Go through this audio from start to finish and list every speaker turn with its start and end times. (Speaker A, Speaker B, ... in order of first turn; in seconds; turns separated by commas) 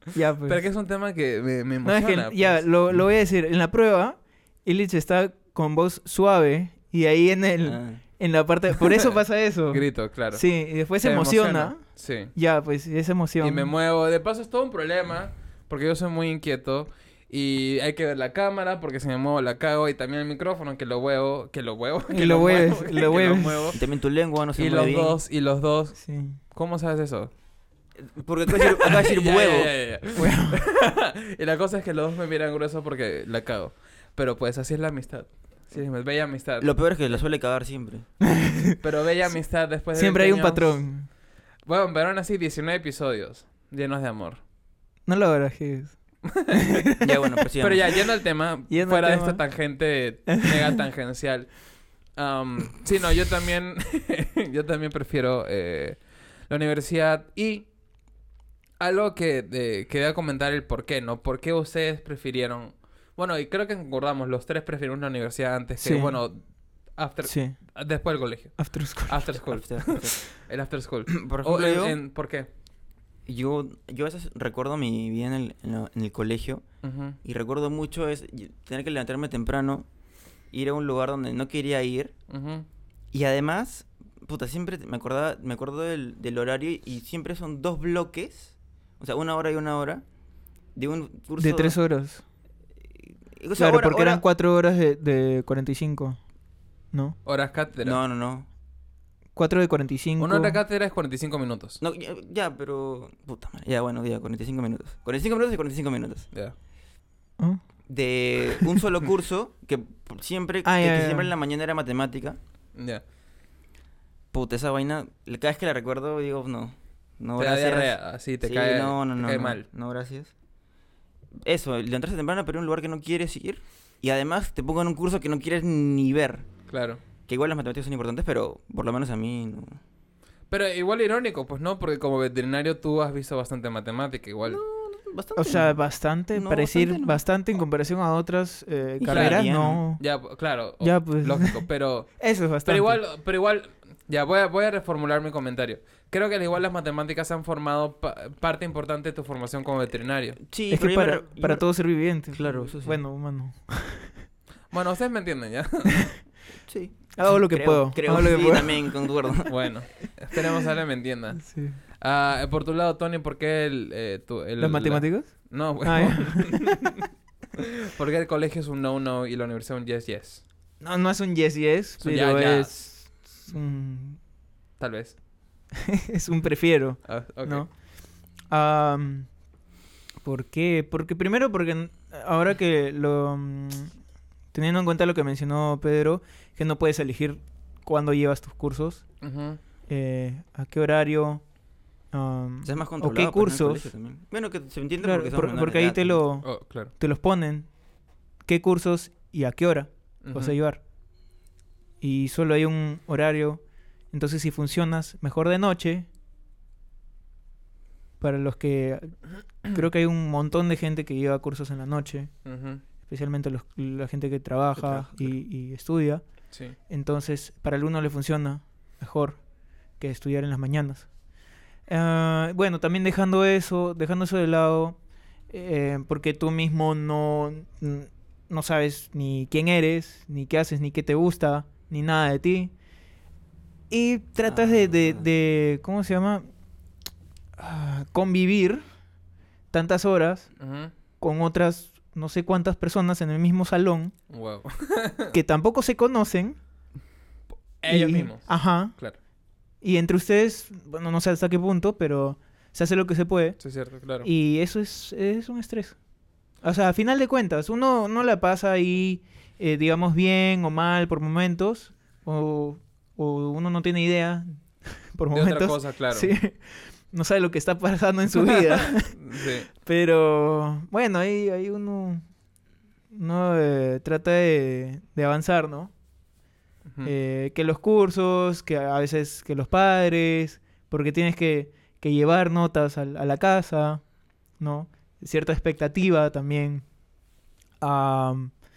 Speaker A: 0.1-0.6, Speaker B: 0.5-2.6, Speaker A: 1.8-13.7, Speaker C: 7.6-8.0, Speaker B: 9.7-10.4, Speaker B: 11.0-12.3, Speaker B: 13.4-23.8, Speaker A: 22.1-23.7, Speaker C: 23.7-25.2, Speaker B: 24.6-27.3, Speaker A: 26.0-26.4, Speaker C: 28.0-29.7, Speaker B: 28.5-36.7, Speaker A: 30.1-30.6, Speaker C: 36.6-38.1, Speaker A: 38.2-38.8, Speaker B: 38.8-40.8, Speaker A: 39.9-41.1, Speaker B: 41.6-44.4, Speaker A: 45.0-46.0, Speaker B: 46.2-46.9, Speaker A: 46.5-47.4, Speaker C: 47.0-48.0, Speaker B: 47.6-51.5, Speaker A: 48.7-49.4, Speaker A: 50.3-50.8, Speaker B: 52.1-57.7, Speaker B: 58.8-66.4, Speaker A: 65.8-66.2, Speaker B: 67.0-72.5, Speaker A: 67.2-67.6, Speaker A: 68.6-69.2, Speaker C: 69.4-70.2, Speaker C: 71.1-72.0, Speaker C: 73.3-76.6, Speaker B: 76.8-77.2, Speaker C: 77.2-79.9, Speaker C: 80.5-82.1, Speaker B: 82.3-82.6, Speaker C: 83.1-90.0, Speaker C: 90.7-91.8, Speaker A: 91.4-92.2, Speaker C: 93.4-94.2, Speaker A: 93.5-96.2, Speaker A: 96.9-97.2, Speaker B: 97.2-98.0, Speaker C: 97.8-98.5, Speaker A: 99.3-100.6, Speaker B: 100.2-101.8, Speaker C: 101.8-106.3, Speaker C: 107.9-112.4, Speaker A: 110.6-111.3, Speaker B: 112.7-113.0, Speaker C: 114.3-120.3, Speaker B: 117.4-119.6, Speaker C: 121.4-126.5, Speaker B: 126.7-127.0, Speaker C: 127.3-129.8, Speaker B: 130.5-134.6, Speaker C: 134.5-135.8, Speaker A: 135.3-140.0, Speaker C: 136.3-137.2, Speaker C: 139.0-139.8, Speaker B: 139.1-139.4, Speaker B: 140.0-150.4, Speaker A: 140.8-141.7, Speaker A: 142.2-143.0, Speaker C: 150.4-153.0, Speaker A: 150.7-154.1, Speaker B: 154.7-156.2, Speaker C: 156.7-159.6, Speaker A: 157.1-159.0, Speaker B: 159.5-161.5, Speaker A: 161.4-161.8, Speaker B: 162.0-170.4, Speaker A: 164.6-166.8, Speaker A: 170.8-174.2, Speaker B: 172.0-172.8, Speaker B: 174.8-175.2, Speaker A: 175.7-177.7, Speaker B: 177.0-177.6, Speaker A: 178.5-179.3, Speaker A: 180.2-183.9, Speaker A: 184.5-189.0, Speaker B: 189.2-189.6, Speaker A: 189.9-191.4, Speaker A: 192.1-193.9, Speaker C: 192.6-196.2, Speaker A: 195.0-197.7, Speaker B: 196.4-196.9, Speaker A: 198.4-200.8, Speaker B: 200.2-200.6, Speaker A: 202.0-206.1, Speaker A: 208.2-212.3, Speaker B: 212.4-212.8, Speaker A: 213.0-216.2, Speaker C: 214.8-215.3, Speaker A: 216.9-219.4, Speaker A: 220.0-221.1, Speaker A: 221.9-225.0, Speaker A: 225.5-232.7, Speaker A: 233.9-236.5, Speaker C: 234.5-235.2, Speaker A: 237.6-238.8, Speaker A: 239.7-240.5, Speaker B: 240.6-240.9, Speaker A: 241.2-244.1, Speaker B: 244.3-245.3, Speaker A: 245.3-246.6, Speaker B: 247.8-249.2, Speaker A: 247.9-248.9, Speaker A: 249.8-253.6, Speaker B: 253.6-254.3, Speaker A: 254.2-256.0, Speaker A: 256.6-272.2, Speaker B: 265.3-266.3, Speaker B: 268.4-269.7, Speaker A: 273.1-275.9, Speaker B: 276.9-277.1, Speaker A: 277.0-284.0, Speaker A: 284.6-286.8, Speaker A: 287.8-288.5